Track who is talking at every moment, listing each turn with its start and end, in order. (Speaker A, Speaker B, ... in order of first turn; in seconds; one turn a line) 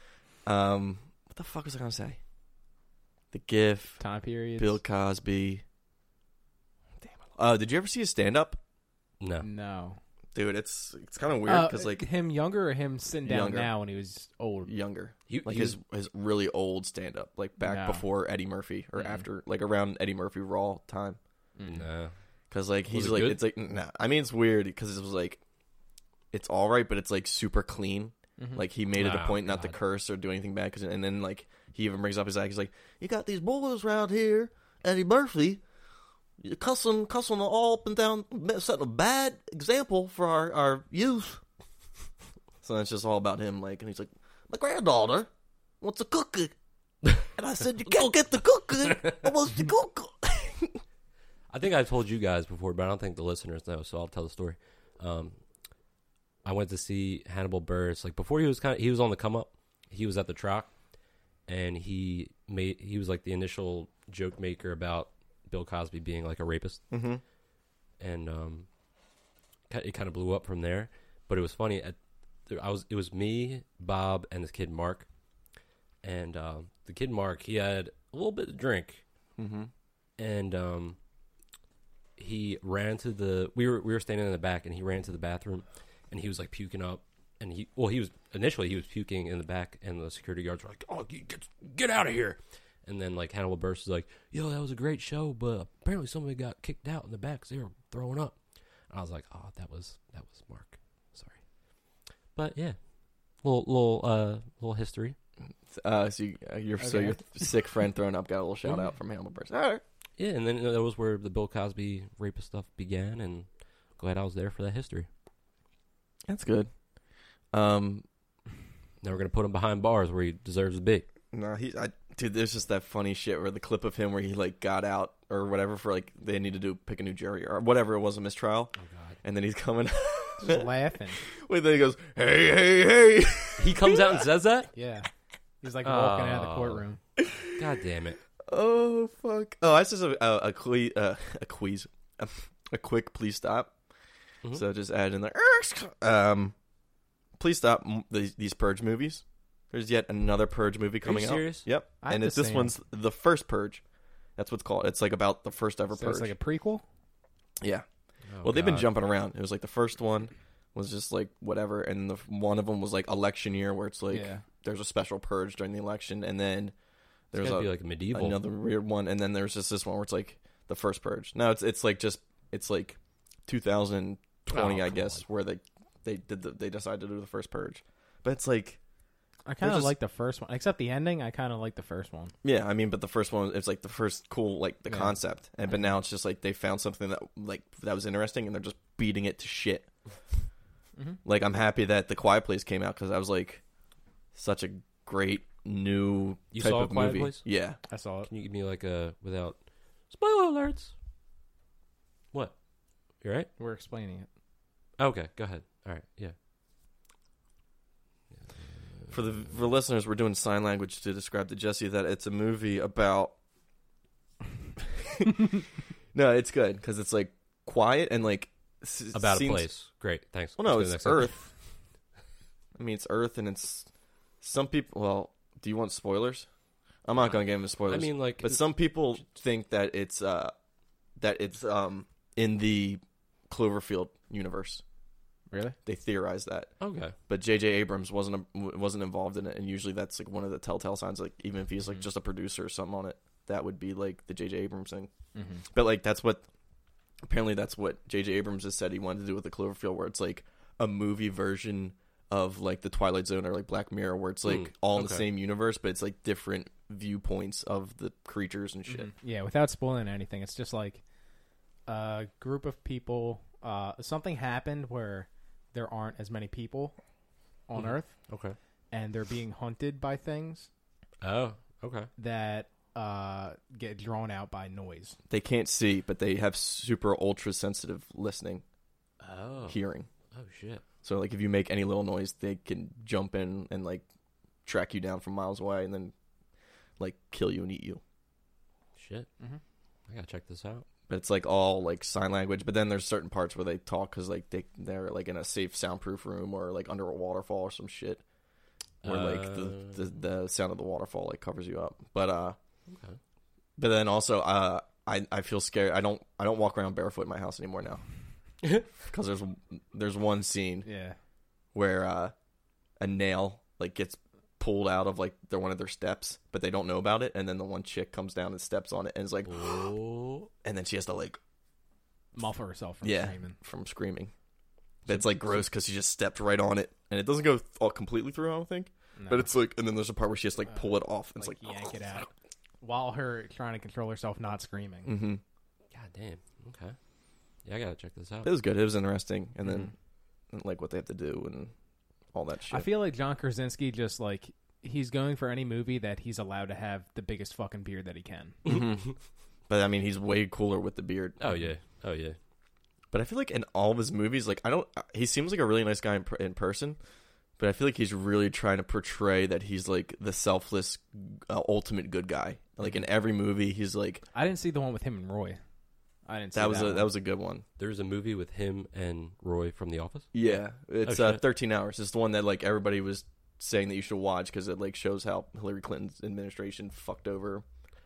Speaker A: 0.5-2.2
Speaker A: 3.3-4.0
Speaker B: 4.0-4.8
Speaker A: 4.6-5.6
Speaker A: 7.0-8.6
Speaker C: 9.2-9.5
Speaker B: 9.4-10.0
Speaker A: 10.3-12.1
Speaker B: 11.5-14.7
Speaker A: 13.2-13.7
Speaker A: 14.7-21.2
Speaker C: 15.3-15.8
Speaker B: 17.6-18.1
Speaker B: 19.0-19.2
Speaker B: 21.6-21.9
Speaker C: 21.6-22.1
Speaker A: 22.5-25.4
Speaker C: 22.9-23.4
Speaker A: 26.3-35.6
Speaker B: 28.4-28.6
Speaker C: 28.9-29.8
Speaker A: 36.4-41.4
Speaker A: 42.6-45.3
Speaker A: 45.8-46.5
Speaker A: 47.4-50.8
Speaker C: 48.8-49.2
Speaker C: 51.5-55.4
Speaker C: 56.4-60.7
Speaker C: 61.5-66.8
Speaker A: 66.9-67.2
Speaker C: 68.0-68.7
Speaker C: 69.7-72.0
Speaker C: 72.5-75.1
Speaker C: 76.0-79.0
Speaker A: 79.4-79.7
Speaker C: 80.2-81.0
Speaker C: 82.2-98.4
Speaker C: 98.9-101.4
Speaker C: 102.3-102.8
Speaker C: 103.4-105.2
Speaker A: 105.7-109.8
Speaker B: 106.8-107.3
Speaker C: 108.7-108.9
Speaker C: 110.2-115.1
Speaker A: 116.3-116.7
Speaker A: 117.5-118.0
Speaker C: 119.0-121.0
Speaker A: 121.3-128.7
Speaker C: 128.8-129.2
Speaker A: 129.2-134.2
Speaker B: 130.4-131.2
Speaker C: 133.6-134.7
Speaker B: 134.7-135.1
Speaker B: 135.6-137.0
Speaker C: 135.8-136.8
Speaker A: 137.2-137.6
Speaker C: 137.6-138.2
Speaker A: 138.5-143.7
Speaker A: 144.5-146.6
Speaker A: 147.4-153.8
Speaker C: 151.0-151.7
Speaker B: 152.0-152.7
Speaker A: 154.4-156.3
Speaker B: 155.9-156.8
Speaker C: 158.3-158.9
Speaker A: 158.4-166.7
Speaker B: 164.1-164.4
Speaker A: 167.3-178.8
Speaker C: 167.3-168.4
Speaker C: 174.5-175.2
Speaker B: 179.5-182.3
Speaker A: 179.6-179.9
Speaker A: 182.4-189.9
Speaker B: 184.9-185.2
Speaker A: 191.2-193.6
Speaker A: 194.3-197.8
Speaker C: 196.5-197.5
Speaker B: 197.9-198.3
Speaker C: 198.2-199.6
Speaker C: 200.1-200.9
Speaker C: 203.2-203.5
Speaker B: 203.6-204.3
Speaker C: 205.0-206.3
Speaker A: 209.1-213.3
Speaker A: 214.8-215.6
Speaker A: 216.1-219.7
Speaker C: 219.1-221.4
Speaker A: 220.6-221.5
Speaker A: 222.8-223.9
Speaker A: 224.4-226.5
Speaker A: 227.1-230.5
Speaker C: 227.2-228.6
Speaker A: 231.2-234.8
Speaker B: 235.5-235.8
Speaker A: 235.9-236.7
Speaker C: 236.8-237.2
Speaker A: 237.3-245.1
Speaker B: 245.3-245.7
Speaker A: 245.7-246.5
Speaker A: 247.2-259.1
Speaker C: 254.5-255.2
Speaker B: 258.9-261.0
Speaker B: 261.9-267.0
Speaker B: 267.7-268.3
Speaker C: 267.8-268.6
Speaker B: 268.9-270.7
Speaker C: 271.2-272.1
Speaker B: 272.2-275.2
Speaker A: 275.3-278.6
Speaker C: 279.2-279.8
Speaker A: 279.7-280.1
Speaker C: 280.3-280.8
Speaker A: 281.0-284.0
Speaker A: 284.6-286.1
Speaker A: 287.0-288.0
Speaker C: 289.0-289.3
Speaker C: 290.1-290.9
Speaker A: 291.1-298.2
Speaker C: 299.0-300.0
Speaker A: 299.0-302.6
Speaker C: 302.9-303.2
Speaker A: 303.8-308.0
Speaker A: 309.0-310.9
Speaker B: 310.9-311.2
Speaker A: 311.7-312.3
Speaker A: 313.0-319.9
Speaker C: 319.5-320.5
Speaker A: 320.6-321.4
Speaker B: 322.4-323.6
Speaker A: 323.0-324.3
Speaker A: 325.1-331.7
Speaker B: 329.2-329.5
Speaker B: 330.7-332.3
Speaker B: 332.8-335.1
Speaker A: 335.1-335.4
Speaker C: 335.9-337.0
Speaker C: 337.6-338.5
Speaker A: 338.4-339.9
Speaker A: 340.5-341.7
Speaker A: 342.3-342.9
Speaker B: 342.7-348.6
Speaker A: 348.6-349.1
Speaker A: 349.7-351.5
Speaker C: 351.4-352.4
Speaker A: 353.1-357.0
Speaker A: 357.6-364.2
Speaker B: 364.3-365.6
Speaker B: 366.2-367.1
Speaker A: 366.5-367.6
Speaker C: 367.8-370.4
Speaker A: 370.3-377.6
Speaker C: 371.1-371.4